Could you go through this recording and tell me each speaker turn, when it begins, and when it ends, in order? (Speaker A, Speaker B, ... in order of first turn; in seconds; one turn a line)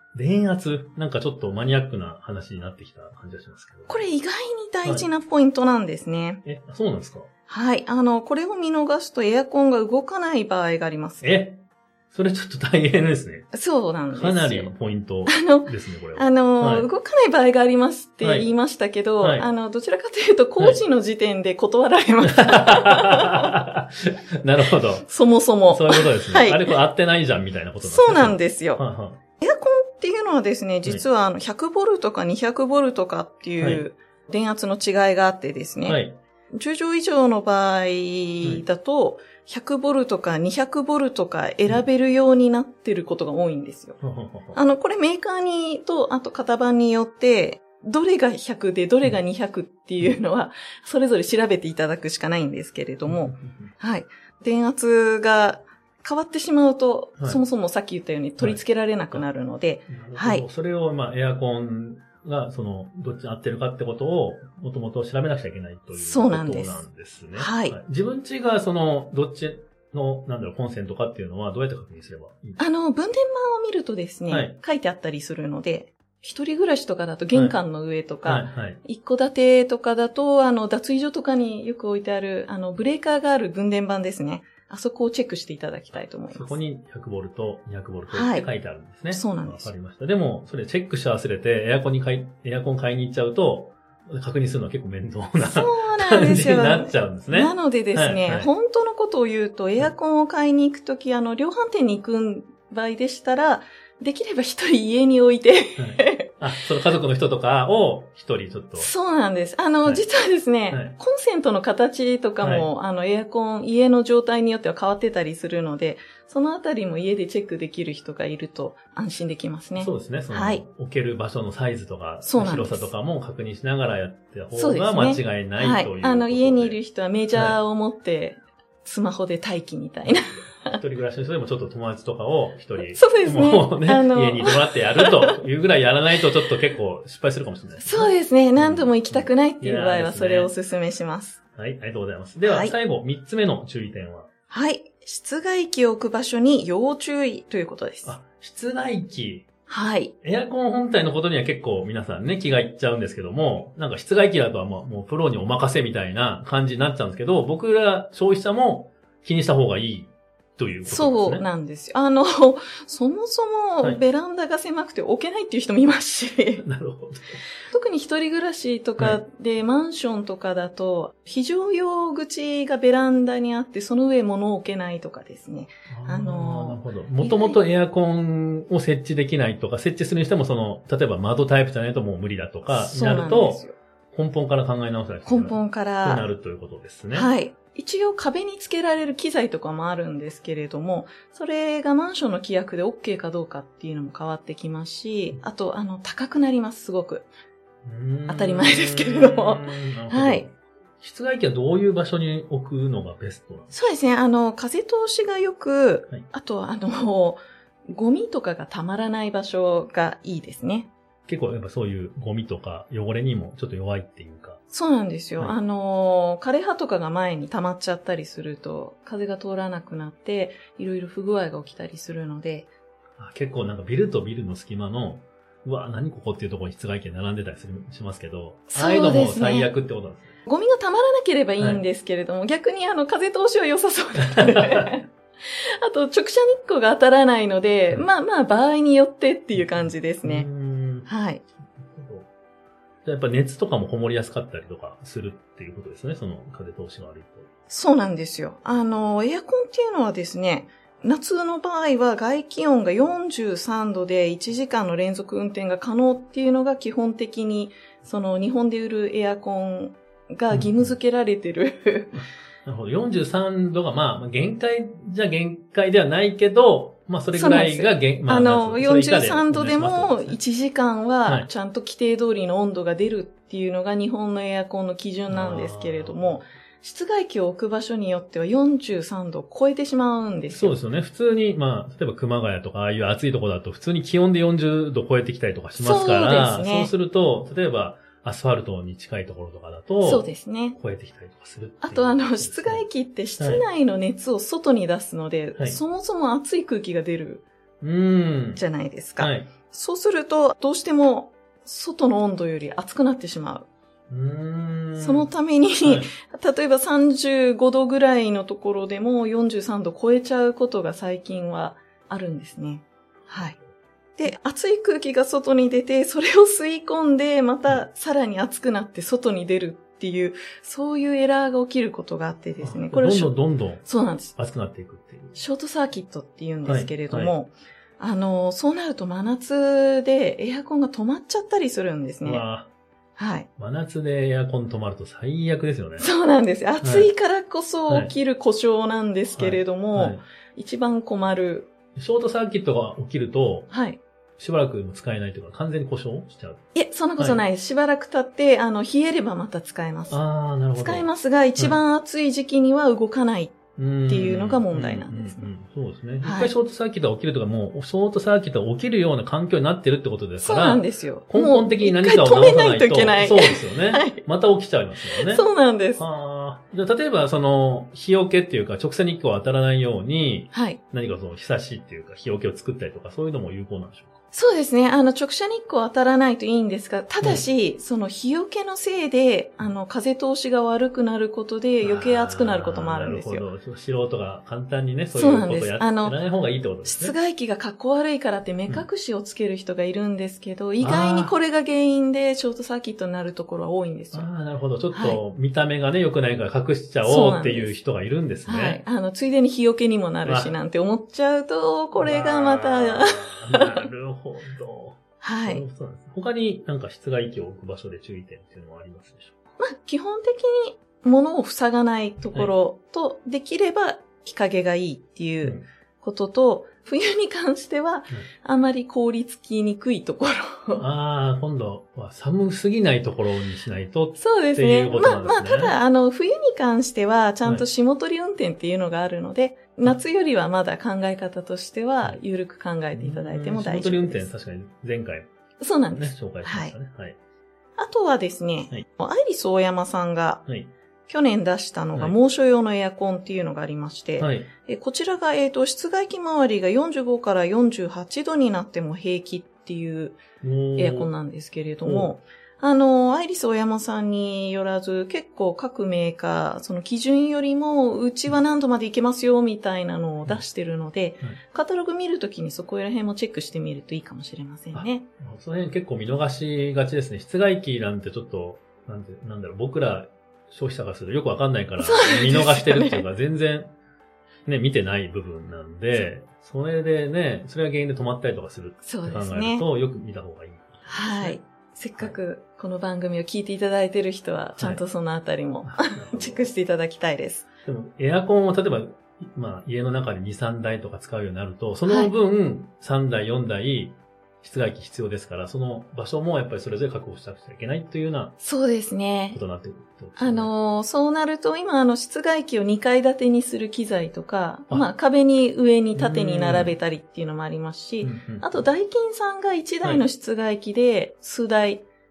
Speaker A: 0.1-4.0
Speaker B: 3.9-6.4
Speaker A: 6.4-7.3
Speaker B: 7.5-11.3
Speaker A: 11.2-13.5
Speaker B: 13.5-14.7
Speaker A: 14.1-16.9
Speaker B: 15.2-23.5
Speaker A: 18.2-18.5
Speaker A: 19.2-19.4
Speaker A: 22.2-25.1
Speaker B: 25.0-26.8
Speaker A: 25.7-29.2
Speaker B: 27.8-28.8
Speaker B: 29.4-36.0
Speaker A: 33.6-33.8
Speaker A: 35.9-36.1
Speaker B: 36.5-44.0
Speaker A: 44.0-44.6
Speaker B: 44.5-60.4
Speaker A: 53.0-53.7
Speaker A: 59.9-72.6
Speaker B: 66.0-66.8
Speaker B: 67.3-67.8
Speaker B: 72.6-86.6
Speaker A: 74.3-74.6
Speaker A: 78.2-78.8
Speaker A: 86.3-98.5
Speaker B: 88.1-88.5
Speaker B: 89.1-89.7
Speaker B: 95.4-106.4
Speaker A: 105.8-108.9
Speaker B: 108.8-120.6
Speaker A: 110.7-111.0
Speaker A: 112.4-112.7
Speaker A: 119.8-126.8
Speaker B: 122.2-122.9
Speaker B: 124.5-130.8
Speaker A: 127.3-127.6
Speaker A: 130.1-140.5
Speaker B: 132.8-135.4
Speaker B: 137.8-141.4
Speaker A: 141.6-144.3
Speaker B: 142.4-142.7
Speaker B: 144.5-148.1
Speaker A: 148.0-149.5
Speaker B: 149.7-150.1
Speaker A: 150.2-161.4
Speaker B: 160.8-166.6
Speaker A: 166.6-167.4
Speaker B: 167.7-177.6
Speaker A: 175.9-187.3
Speaker B: 182.7-183.7
Speaker B: 185.2-186.3
Speaker B: 187.1-197.3
Speaker A: 197.8-203.7
Speaker B: 198.3-200.5
Speaker B: 203.7-210.9
Speaker A: 211.3-214.6
Speaker B: 214.7-222.7
Speaker A: 223.2-230.4
Speaker B: 228.7-229.7
Speaker B: 230.4-240.5
Speaker A: 231.6-231.8
Speaker A: 234.3-234.9
Speaker A: 239.5-241.1
Speaker B: 241.0-241.4
Speaker A: 241.8-242.3
Speaker A: 243.0-247.5
Speaker B: 247.7-262.1
Speaker A: 260.5-260.9
Speaker A: 262.1-270.4
Speaker B: 267.3-280.7
Speaker A: 275.3-276.4
Speaker A: 280.5-292.8
Speaker B: 285.8-286.9
Speaker B: 290.0-290.8
Speaker B: 291.8-297.4
Speaker A: 293.4-293.6
Speaker A: 297.8-298.6
Speaker B: 298.6-303.7
Speaker A: 299.2-299.5
Speaker A: 304.1-305.3
Speaker B: 305.0-313.6
Speaker A: 305.8-306.1
Speaker B: 314.2-324.3
Speaker A: 322.6-325.4
Speaker B: 325.4-332.4
Speaker A: 326.6-327.3
Speaker A: 332.2-332.7
Speaker B: 333.2-333.5
Speaker A: 333.6-336.1
Speaker B: 336.0-341.7
Speaker A: 336.8-337.1
Speaker A: 339.3-340.2
Speaker A: 341.9-343.7
Speaker B: 343.7-344.0
Speaker A: 344.4-346.6
Speaker B: 346.7-350.2
Speaker A: 347.2-347.4
Speaker A: 350.1-351.8
Speaker B: 350.8-355.5
Speaker A: 353.8-374.2
Speaker B: 356.2-356.5
Speaker B: 360.4-364.2
Speaker B: 365.1-366.0
Speaker B: 370.5-370.8
Speaker B: 374.3-383.4
Speaker A: 381.8-387.1
Speaker B: 385.1-386.2
Speaker B: 386.8-394.3
Speaker A: 390.8-391.3
Speaker A: 394.1-398.8
Speaker B: 394.9-395.2
Speaker B: 397.0-397.7
Speaker B: 398.4-403.8
Speaker A: 400.2-400.5
Speaker A: 402.0-409.3
Speaker B: 405.2-405.6
Speaker B: 409.6-420.9
Speaker A: 420.8-425.8
Speaker B: 424.2-434.3
Speaker A: 432.9-435.3
Speaker B: 435.6-436.7
Speaker A: 435.9-437.2
Speaker B: 437.8-440.4
Speaker B: 441.1-450.2
Speaker A: 444.2-444.5
Speaker A: 450.4-451.1
Speaker B: 450.8-465.1
Speaker A: 451.8-452.1
Speaker A: 464.7-473.7
Speaker B: 471.8-473.1
Speaker A: 474.4-481.4
Speaker B: 478.8-479.6
Speaker B: 480.9-487.4
Speaker A: 485.6-486.5
Speaker A: 487.6-498.4
Speaker B: 491.9-492.1
Speaker B: 498.4-499.4
Speaker A: 499.3-500.5
Speaker B: 500.2-511.8
Speaker A: 505.9-506.7
Speaker A: 508.0-508.5